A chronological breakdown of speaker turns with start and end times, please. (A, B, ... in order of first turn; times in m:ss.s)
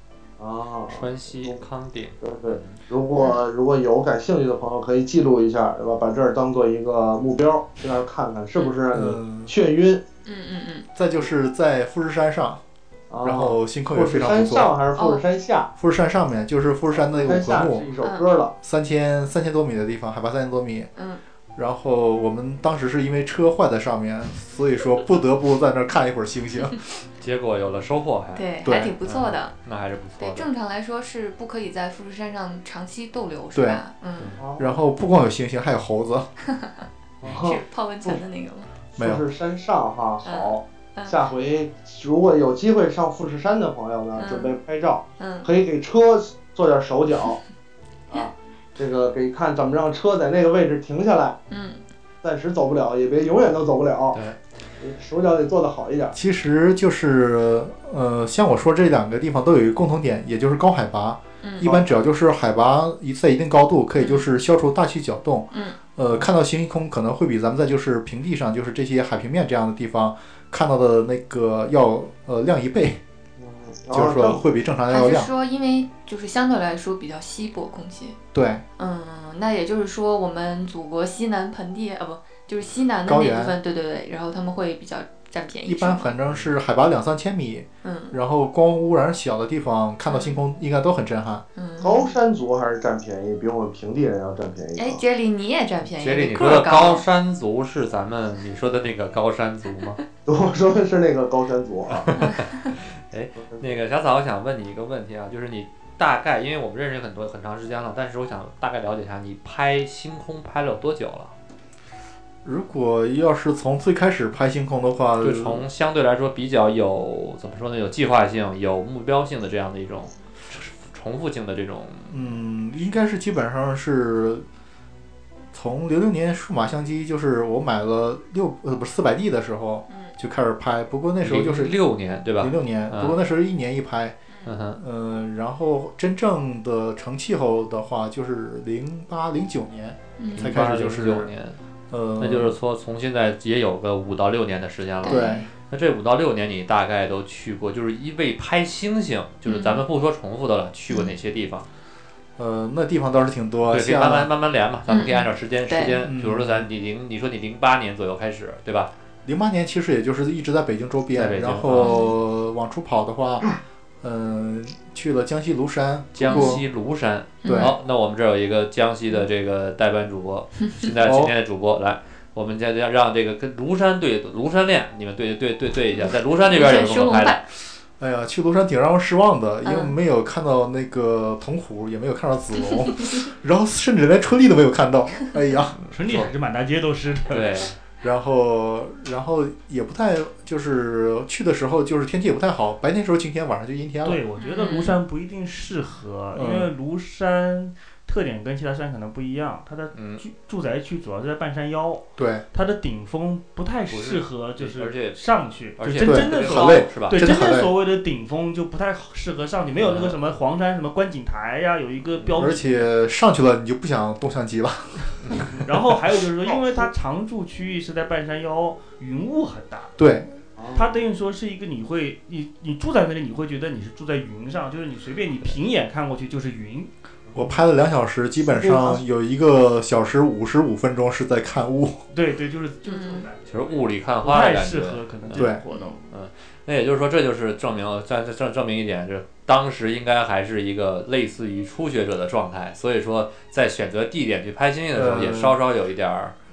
0:00.4-0:01.6 A
0:00.9-0:02.8 B
0:02.2-0:10.0 A
0:08.9-0:09.5 C
0:10.2-0:10.9 D
0:11.0-0:12.6 C
0:13.1-0:15.7 A
0:13.2-0:14.7 C
0:15.0-0:15.2 D
0:15.8-0:17.9 C
0:17.0-0:18.6 A
0:18.6-0:20.9 C
0:21.0-0:21.2 D
0:21.6-0:27.0 C
0:27.2-0:28.4 B
0:28.4-0:29.5 D
0:28.6-0:28.9 C
0:29.0-0:30.5 B
0:30.2-0:34.3 D
0:33.5-0:33.8 C
0:34.4-0:34.8 A
0:34.6-0:36.3 C
0:37.2-0:38.2 A
0:37.3-0:38.7 D
0:39.0-0:39.2 C
0:39.0-0:47.4 A
0:40.2-0:41.2 D
0:44.2-0:44.6 D
0:45.2-0:45.5 D
0:48.1-0:51.4 A
0:51.5-0:51.8 D
0:52.2-0:54.2 A
0:54.8-0:56.2 A
0:56.1-1:13.0 C
1:01.4-1:01.7 D
1:04.0-1:04.2 D
1:05.5-1:05.8 D
1:13.4-1:14.4 A
1:13.9-1:15.3 C
1:14.9-1:18.2 D
1:18.3-1:18.6 C
1:18.8-1:26.1 D
1:23.1-1:23.6 C
1:25.6-1:31.4 C
1:27.8-1:28.2 D
1:30.1-1:30.4 D
1:31.6-1:32.2 D
1:31.8-1:35.0 A
1:34.8-1:37.0 D
1:36.0-1:40.0 B
1:40.3-1:42.1 A
1:41.9-1:51.3 B
1:42.2-1:42.5 D
1:52.4-1:55.6 C
1:55.2-2:02.4 B
2:02.1-2:04.4 C
2:05.5-2:11.8 C
2:11.2-2:13.2 B
2:12.4-2:14.2 C
2:14.5-2:14.8 B
2:14.8-2:21.3 C
2:20.2-2:20.5 D
2:20.4-2:21.6 B
2:21.9-2:22.6 C
2:22.2-2:31.7 B
2:25.0-2:25.5 D
2:25.0-2:25.5 C
2:29.5-2:29.8 D
2:32.4-2:34.3 C
2:33.7-2:38.9 B
2:34.9-2:36.0 D
2:36.0-2:36.7 C
2:39.2-2:43.5 C
2:41.2-2:42.0 B
2:41.8-2:42.1 D
2:44.0-2:46.6 C
2:46.2-2:57.4 B
2:46.3-2:46.6 D
2:47.4-2:47.7 D
2:47.5-2:47.8 C
2:51.0-2:51.3 C
2:56.0-2:57.4 D
2:58.0-3:05.8 C
2:59.6-2:59.9 D
3:05.8-3:06.3 B
3:05.9-3:07.7 E
3:07.3-3:07.8 B
3:08.0-3:14.2 C
3:14.0-3:32.9 E
3:14.4-3:15.0 D
3:16.3-3:16.7 C
3:19.9-3:20.2 B
3:22.2-3:22.4 C
3:23.9-3:27.2 B
3:26.0-3:27.7 C
3:29.8-3:30.2 B
3:32.4-3:35.6 C
3:35.2-3:35.5 B
3:35.5-3:40.0 E
3:36.5-3:36.9 A
3:40.0-3:40.3 C
3:40.6-3:41.1 A
3:40.7-3:46.9 E
3:47.3-3:52.0 C
3:48.4-3:49.0 A
3:52.1-3:56.1 E
3:52.8-3:53.3 D
3:53.5-3:55.5 B
3:55.3-3:55.6 C
3:56.1-4:06.4 B
4:04.9-4:05.6 C